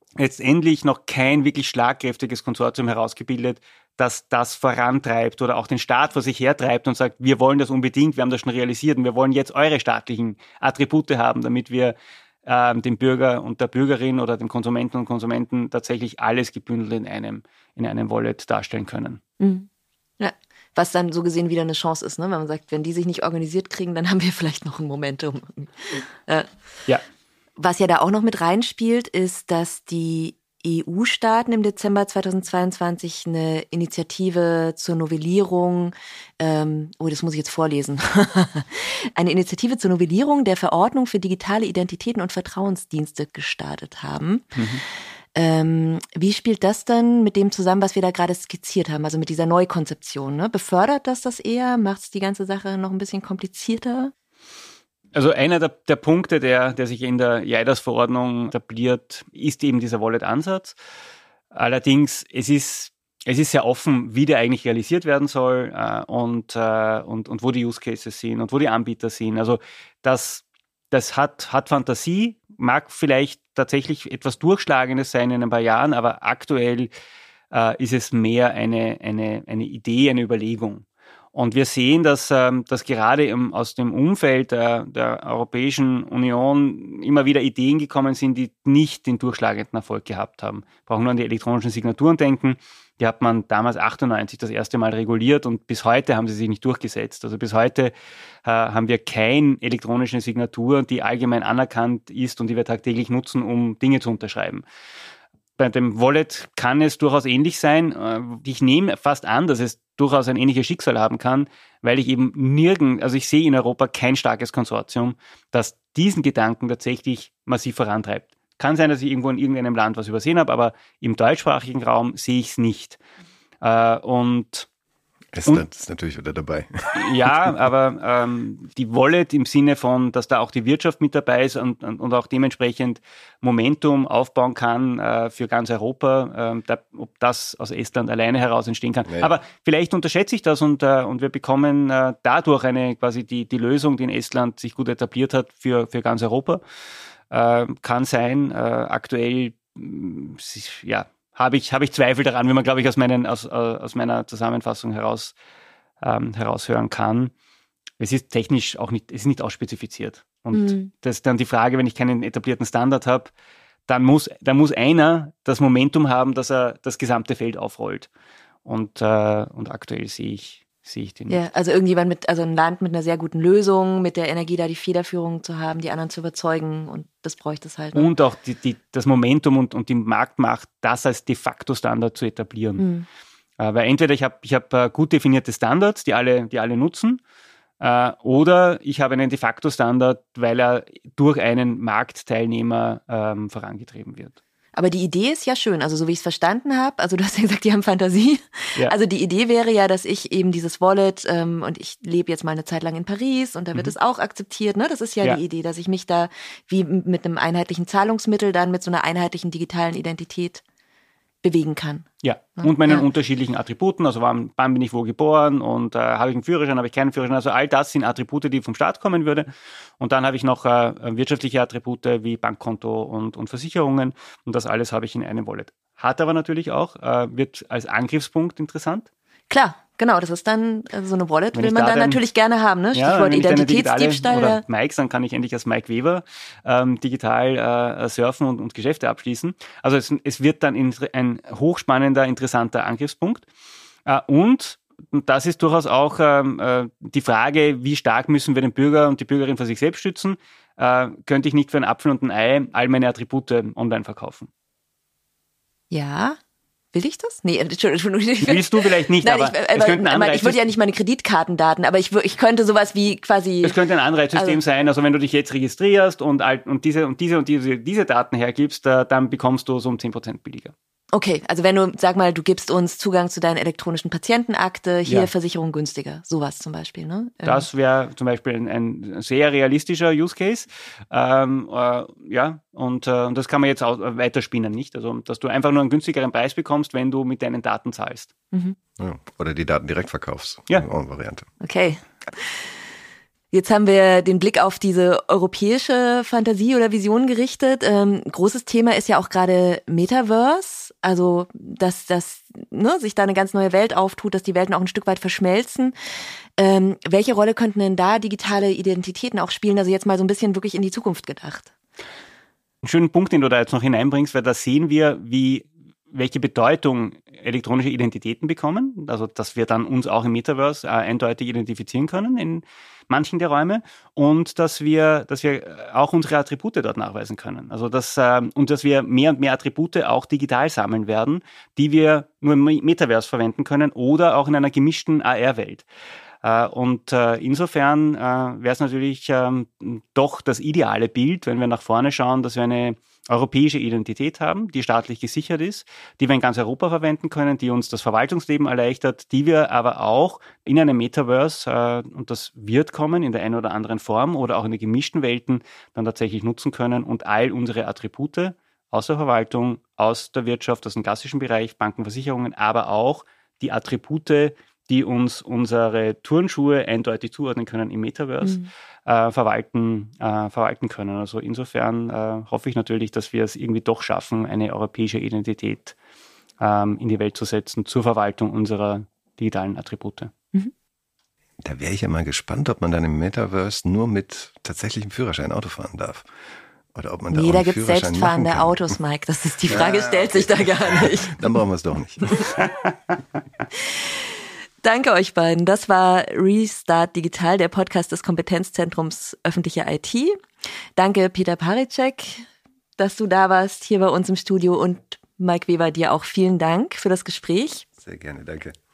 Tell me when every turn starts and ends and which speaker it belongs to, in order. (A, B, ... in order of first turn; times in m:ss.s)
0:00.2-0:19.2 A
0:19.4-0:19.7 B
0:20.2-0:26.5 B
0:27.6-0:44.6 B
0:44.6-0:44.8 A
0:45.4-0:54.1 B
0:55.1-1:00.8 A
1:01.5-1:16.9 A
1:17.5-1:37.9 A
1:38.4-1:44.6 A
1:45.6-2:03.0 A
2:03.6-2:04.7 A
2:05.3-2:07.3 C
2:07.0-2:26.6 A
2:27.3-2:35.3 A
2:36.0-2:37.3 A
2:38.0-2:43.3 A
2:40.5-2:40.9 B
2:43.9-2:48.1 A
2:48.6-2:51.4 A
2:51.3-2:58.1 B
2:58.0-3:02.8 A
3:02.8-3:03.1 B
3:03.6-3:07.2 A
3:07.8-3:14.4 A
3:14.8-3:30.6 B
3:31.4-3:32.1 B
3:32.2-3:49.1 A
3:32.6-3:33.1 B
3:49.5-3:54.6 B
3:51.6-3:52.2 A
3:52.9-4:03.5 A
4:04.1-4:14.5 A
4:15.9-4:16.4 B
4:16.9-4:23.8 B
4:18.4-4:20.6 A
4:23.6-4:30.7 A
4:31.1-4:37.7 B
4:37.4-4:48.3 A
4:48.5-4:48.8 B
4:49.0-4:51.5 C
4:51.6-4:52.6 B
4:53.5-5:06.0 B
5:06.6-5:11.7 B
5:12.8-5:35.9 A
5:36.4-6:16.0 A
6:08.4-6:08.7 B
6:16.6-6:20.3 A
6:21.6-6:26.3 C
6:26.9-6:28.8 C
6:27.3-6:31.5 B
6:29.7-6:32.3 C
6:34.8-6:40.4 B
6:41.0-6:42.5 B
6:43.0-6:47.8 B
6:48.0-6:48.8 C